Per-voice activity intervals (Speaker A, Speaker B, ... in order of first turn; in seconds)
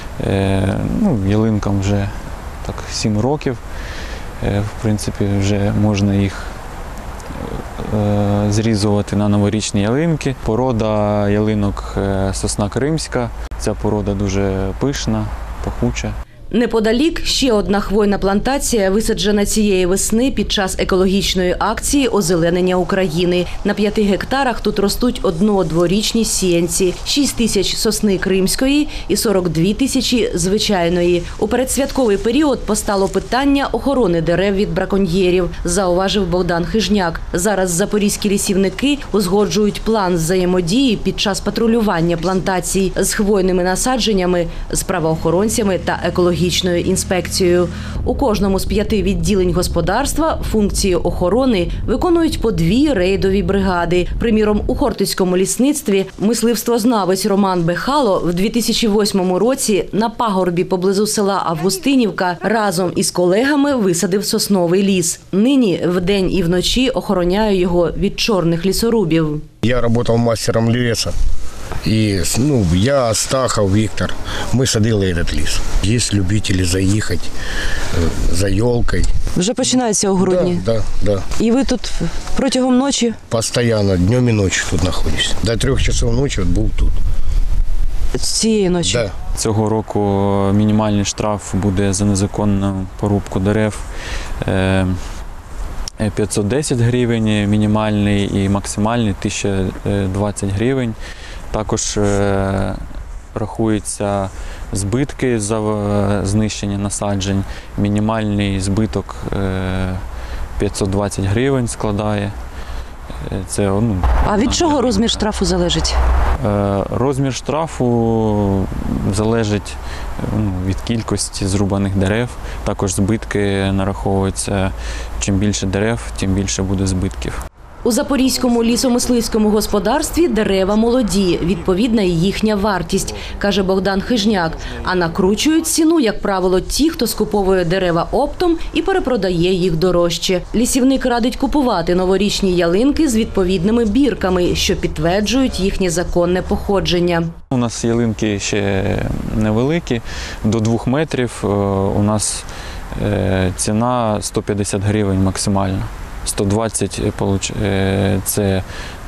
Speaker A: 0.2-3.6, 4.4-6.5, 7.3-16.2, 89.4-93.9, 94.4-95.0, 96.0-101.0, 101.5-102.8, 103.3-110.0, 110.6-112.3, 113.2-115.2, 116.4-127.4, 147.5-158.7
Speaker B: 16.5-69.5, 79.3-80.6, 81.4-83.2, 88.1-89.1, 114.2-116.0, 127.8-147.3
Speaker C: 69.6-71.1, 71.8-79.1, 80.2-81.3, 83.3-87.0, 88.8-89.1